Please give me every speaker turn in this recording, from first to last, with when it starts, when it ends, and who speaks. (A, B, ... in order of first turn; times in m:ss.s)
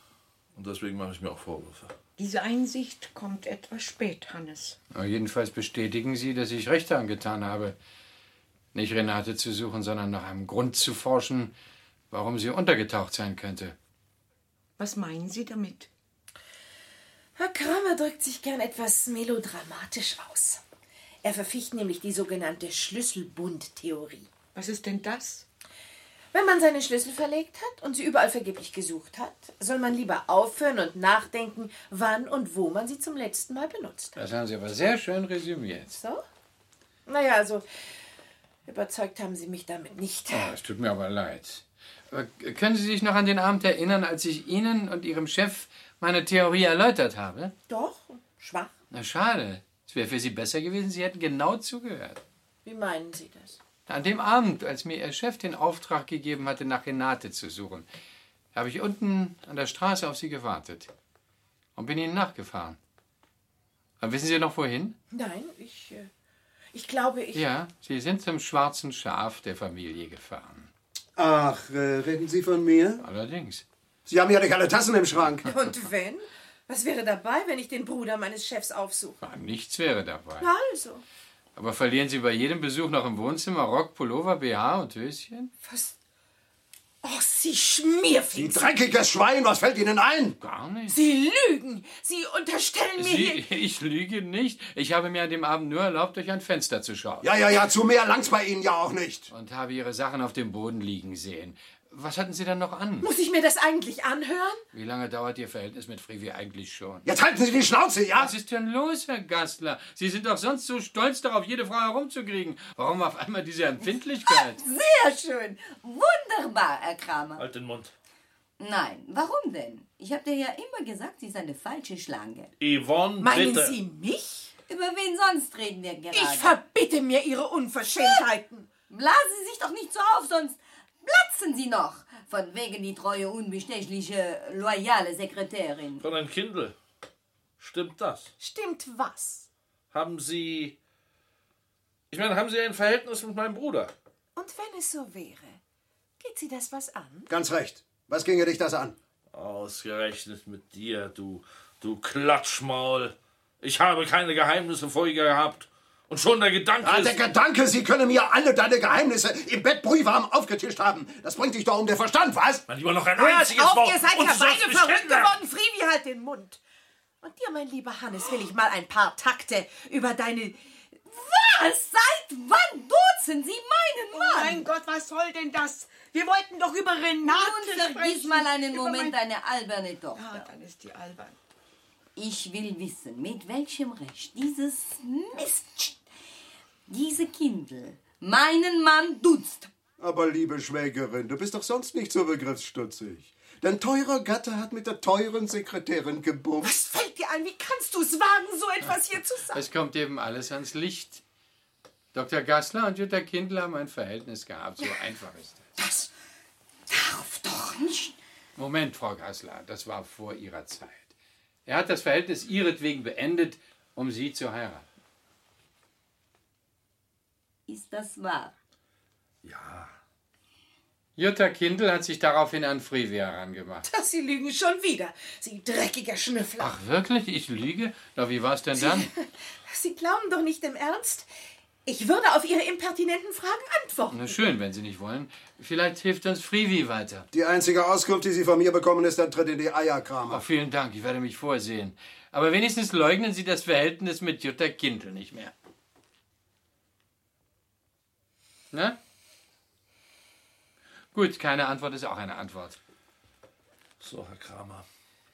0:00.5-0:01.9 A
0:02.2-0:04.8 B
0:04.9-0:07.8 C
0:08.7-0:11.5 C
0:12.1-0:13.7 C
0:14.8-0:15.9 B
0:17.4-0:20.6 D
0:21.2-0:24.3 D
0:24.5-0:25.4 B
0:26.3-0:34.2 D
0:34.2-0:36.0 C
0:36.0-0:36.2 D
0:37.1-0:37.6 D
0:38.6-0:40.6 D
0:40.3-0:47.5 C
0:47.7-0:48.7 D
0:48.9-0:52.2 C
0:52.6-0:53.6 D
0:53.9-0:57.8 C
0:58.5-1:00.9 C
1:01.8-1:02.8 C
1:04.0-1:04.9 C
1:05.1-1:06.1 D
1:06.7-1:07.5 D
1:07.3-1:10.7 C
1:11.2-1:13.0 E
1:13.0-1:13.6 C
1:14.1-1:15.5 E
1:15.4-1:19.2 D
1:19.2-1:20.5 C
1:20.4-1:21.0 D
1:21.6-1:25.5 C
1:25.6-1:25.9 D
1:27.0-1:28.7 D
1:28.3-1:30.4 E
1:30.4-1:31.1 C
1:30.9-1:33.5 D
1:33.0-1:37.3 C
1:37.2-1:39.3 E
1:39.3-1:43.1 C
1:43.0-1:44.6 D
1:44.7-1:47.0 C
1:47.0-1:48.3 E
1:48.1-1:54.6 C
1:54.2-1:57.4 F
1:57.4-1:57.9 A
1:58.6-2:02.5 F
2:02.6-2:03.7 A
2:03.2-2:04.5 D
2:04.7-2:06.6 F
2:06.1-2:08.7 D
2:08.0-2:08.2 F
2:08.9-2:16.0 F
2:16.0-2:16.8 A
2:17.6-2:18.3 A
2:18.4-2:19.5 D
2:19.9-2:20.8 A
2:22.1-2:23.9 A
2:24.4-2:25.6 D
2:26.2-2:27.3 D
2:27.3-2:29.0 E
2:29.3-2:37.2 A
2:36.8-2:42.6 E
2:42.7-2:45.4 A
2:43.2-2:46.6 D
2:47.2-2:50.6 D
2:51.1-2:54.6 F
2:54.1-2:59.2 B
2:57.2-3:00.5 F
3:00.1-3:01.4 B
3:02.2-3:06.0 F
3:06.9-3:09.7 F
3:10.0-3:16.7 E
3:16.6-3:19.6 D
3:19.5-3:21.2 C
3:22.1-3:25.7 C
3:25.8-3:26.0 D
3:26.9-3:28.1 F
3:28.6-3:31.1 C
3:31.6-3:34.8 C
3:37.7-3:38.5 F
3:39.4-3:39.9 A
3:41.2-3:43.9 C
3:43.8-3:46.7 D
3:46.6-3:49.1 C
3:48.8-3:51.3 D
3:51.8-3:54.4 D
3:54.1-3:57.3 C
3:57.3-4:00.4 E
4:00.3-4:05.5 C
4:08.7-4:09.0 C
4:11.1-4:12.8 C
4:14.0-4:14.8 A